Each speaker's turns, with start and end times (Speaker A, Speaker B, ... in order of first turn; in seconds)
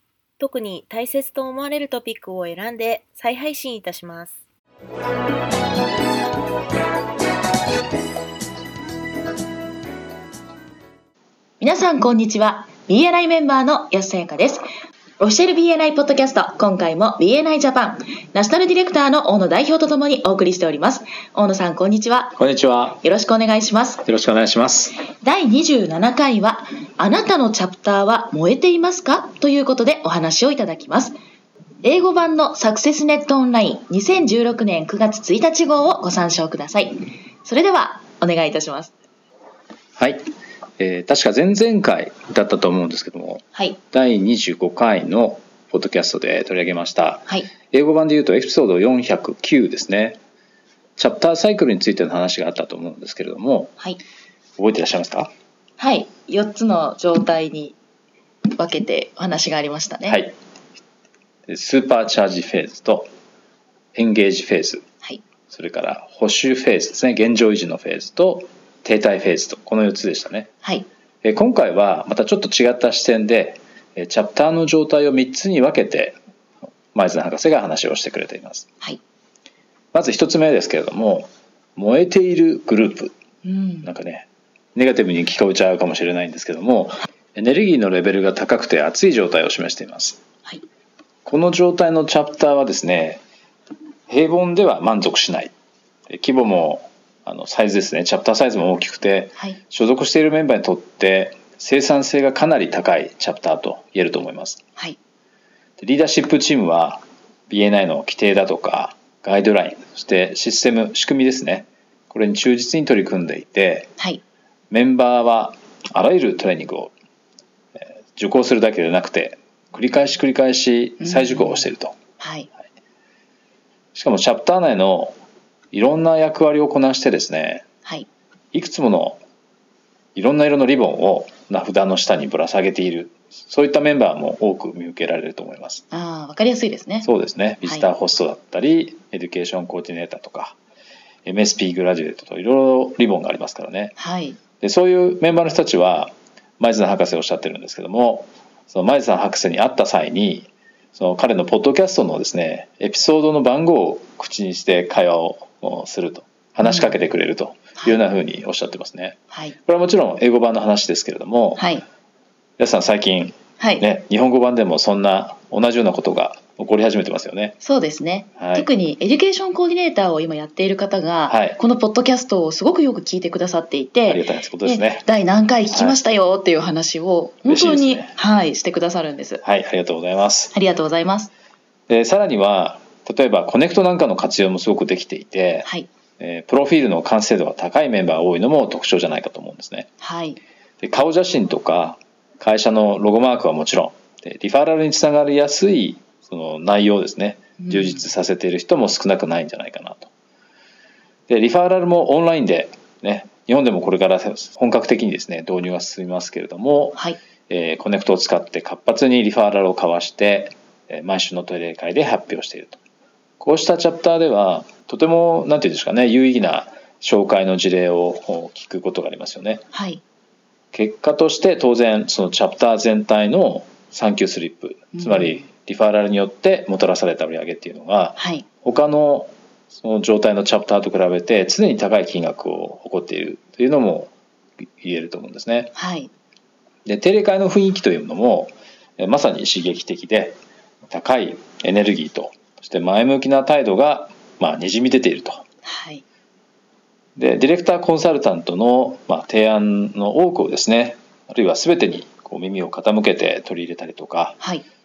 Speaker A: 0.4-4.3
Speaker B: 11.6-14.7, 15.2-22.4, 23.0-24.1, 25.2-31.2, 31.8-38.9, 43.5-43.8, 55.8-57.8, 58.5-60.2, 83.4-83.9, 121.0-121.6, 122.2-122.5, 135.9-137.1, 144.0-144.4, 156.6-156.9, 161.6-161.8, 163.6-163.8, 167.6-179.4, 180.5-181.3, 190.0-190.4, 197.6-198.1, 219.7-220.0, 224.9-225.3, 228.2-228.5, 235.8-236.1, 245.6-246.0, 254.4-254.7
Speaker C: 22.4-23.0, 24.1-25.0, 40.0-40.2, 40.8-50.2, 51.0-53.7, 54.6-55.3, 60.1-60.3, 61.5-63.1, 64.0-64.8, 65.5-70.5, 71.2-76.2, 76.9-78.7, 79.9-83.1, 83.8-90.2, 91.2-93.2, 94.1-95.5, 96.1-104.6, 105.8-113.9, 114.7-116.9, 117.8-122.0, 124.0-125.2, 125.7-127.7, 128.5-129.2, 130.2-135.8, 137.0-140.6, 141.2-143.9, 144.6-161.6, 162.6-167.6, 168.4-168.7, 171.3-171.6, 174.1-175.1, 175.7-176.0, 177.5-178.1, 179.4-180.5, 181.9-185.7, 186.2-189.9, 190.8-200.1, 201.3-212.8, 213.4-219.6, 220.7-234.1, 234.8-235.7, 236.8-240.4, 240.9-245.4, 247.2-254.4